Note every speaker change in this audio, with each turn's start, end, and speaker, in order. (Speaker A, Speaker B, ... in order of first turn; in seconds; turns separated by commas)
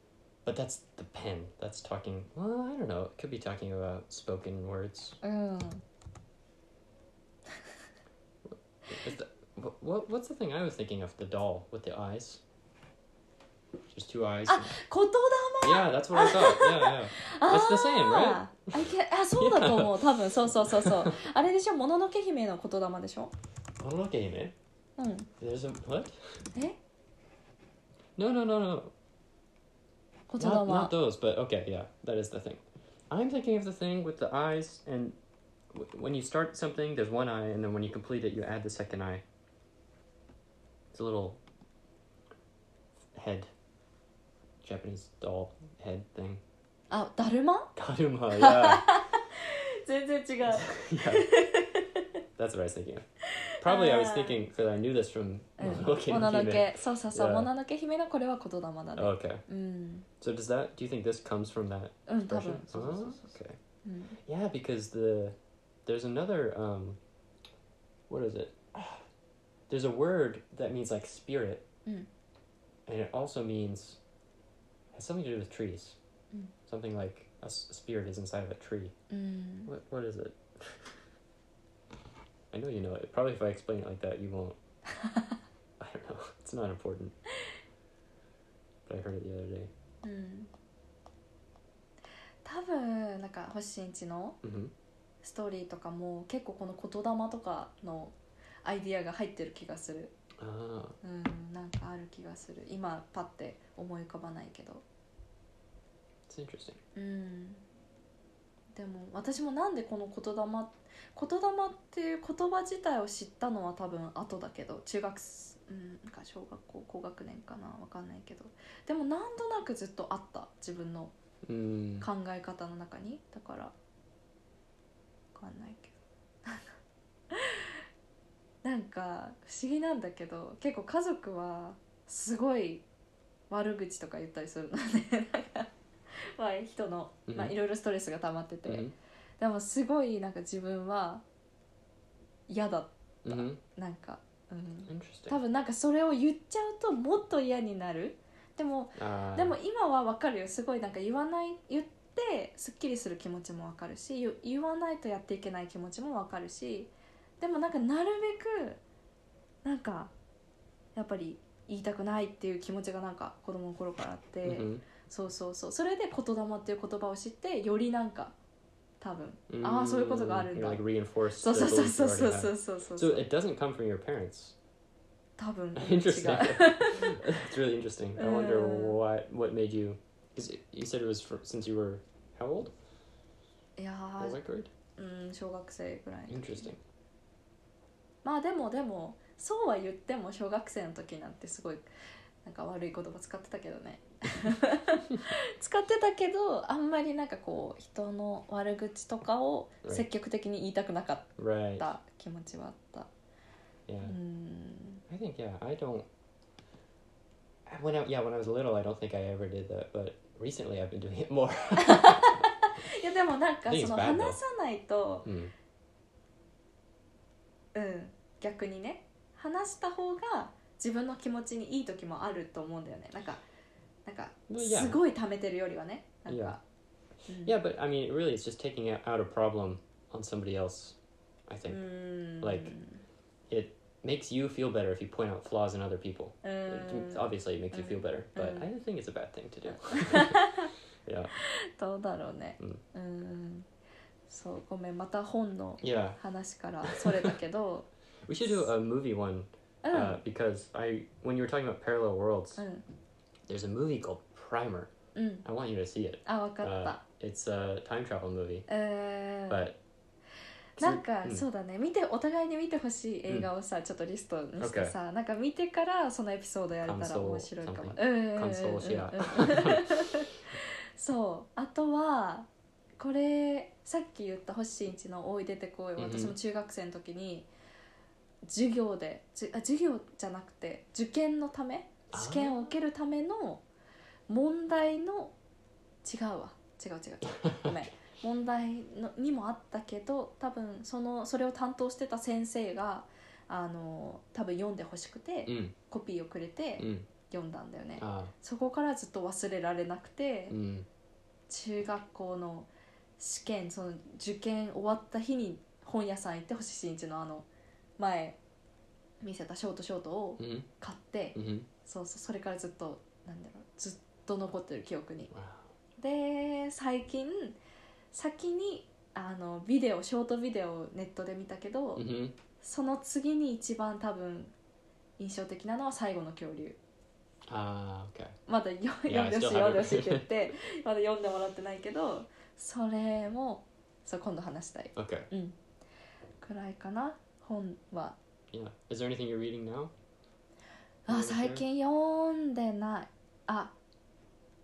Speaker A: 0.5-5.2, Speaker B: 5.2-5.8, Speaker A: 8.4-12.4, Speaker A: 13.9-14.8, Speaker B: 14.5-23.3, Speaker A: 15.6-21.2, Speaker A: 23.8-24.6, Speaker B: 25.0-25.3, Speaker A: 25.4-26.4, Speaker A: 28.2-28.9, Speaker B: 30.3-30.9, Speaker A: 30.4-35.2, Speaker A: 35.7-39.2, Speaker A: 40.9-41.4, Speaker A: 43.1-43.5, Speaker A: 44.6-46.4, Speaker B: 46.9-47.7, Speaker A: 47.8-49.0, Speaker B: 48.3-52.1, Speaker A: 50.5-51.3, Speaker A: 52.4-53.0, Speaker B: 53.4-54.5, Speaker A: 53.6-57.5, Speaker B: 55.6-60.1, Speaker A: 59.0-59.4, Speaker A: 60.2-63.6, Speaker B: 62.1-64.2, Speaker A: 64.2-67.0, Speaker A: 68.1-69.0, Speaker A: 69.7-71.7, Speaker A: 72.9-74.0, Speaker A: 74.9-76.0, Speaker A: 76.7-78.9, Speaker B: 79.1-79.7, Speaker A: 79.7-81.0, Speaker A: 82.5-84.6, Speaker B: 85.0-85.3, Speaker A: 85.8-87.2, Speaker A: 88.9-89.7, Speaker B: 90.0-90.5, Speaker B: 92.5-94.4, Speaker A: 94.4-94.7, Speaker B: 95.2-100.1, Speaker A: 100.4-101.0, Speaker B: 101.0-104.8, Speaker A: 106.3-106.8, Speaker B: 107.0-107.6, Speaker B: 108.8-121.1, Speaker A: 121.4-122.1, Speaker B: 122.0-123.7, Speaker B: 125.3-126.7, Speaker B: 127.3-127.8, Speaker B: 128.6-132.8, Speaker B: 133.5-135.7, Speaker B: 136.4-141.2, Speaker A: 137.3-137.6, Speaker A: 138.7-138.9, Speaker B: 142.5-158.8, Speaker A: 143.2-143.6, Speaker A: 144.9-145.4, Speaker A: 149.0-149.6, Speaker B: 159.6-160.1, Speaker B: 160.9-168.3, Speaker A: 164.4-164.8, Speaker B: 169.0-173.3, Speaker A: 169.5-174.6, Speaker B: 175.4-177.2, Speaker A: 175.8-182.7, Speaker B: 178.2-179.0, Speaker B: 183.8-184.4, Speaker A: 184.2-184.7, Speaker B: 184.9-186.7, Speaker A: 186.3-186.8, Speaker B: 188.2-191.9, Speaker B: 192.4-203.1, Speaker A: 201.4-201.9, Speaker A: 203.9-204.2, Speaker B: 204.0-205.0, Speaker A: 205.1-206.1, Speaker A: 207.7-212.5, Speaker B: 211.8-215.3, Speaker A: 213.7-214.4, Speaker A: 215.2-215.5, Speaker B: 217.7-223.4, Speaker B: 224.1-226.6, Speaker A: 224.5-225.0, Speaker A: 226.3-226.6, Speaker B: 227.3-227.5, Speaker A: 227.4-231.8, Speaker B: 231.7-233.0, Speaker A: 232.4-232.8, Speaker A: 233.5-240.4, Speaker B: 236.4-238.7, Speaker B: 239.7-240.7, Speaker A: 241.1-241.3, Speaker B: 241.4-243.7, Speaker B: 244.3-247.9, Speaker A: 245.8-246.2, Speaker A: 246.8-247.3, Speaker A: 248.3-252.6, Speaker B: 249.8-250.2, Speaker B: 252.6-252.8, Speaker A: 253.5-254.9, Speaker B: 255.2-255.4, Speaker A: 255.4-258.7, Speaker B: 256.2-257.0, Speaker B: 258.7-259.7, Speaker A: 259.5-259.8, Speaker B: 260.8-272.5, Speaker A: 260.8-261.5, Speaker A: 264.6-264.9, Speaker A: 266.9-270.2, Speaker B: 273.0-277.5, Speaker A: 276.0-276.4, Speaker B: 278.4-283.6, Speaker A: 282.1-282.6, Speaker B: 284.3-285.4, Speaker B: 286.0-300.6, Speaker A: 287.4-287.8, Speaker A: 295.5-295.8, Speaker A: 296.8-297.1, Speaker A: 298.0-298.3, Speaker A: 300.5-300.9, Speaker B: 301.5-308.4, Speaker B: 309.2-315.3, Speaker A: 310.4-310.7, Speaker A: 311.4-311.7, Speaker A: 315.3-315.7, Speaker B: 316.0-317.6, Speaker B: 318.1-322.1, Speaker A: 322.0-322.4, Speaker B: 322.6-324.5, Speaker B: 325.2-326.8, Speaker A: 327.5-328.4, Speaker B: 328.5-335.6, Speaker A: 329.1-330.6, Speaker A: 334.9-335.3, Speaker B: 336.4-338.2, Speaker A: 338.5-339.9, Speaker B: 341.1-343.7, Speaker A: 341.1-341.6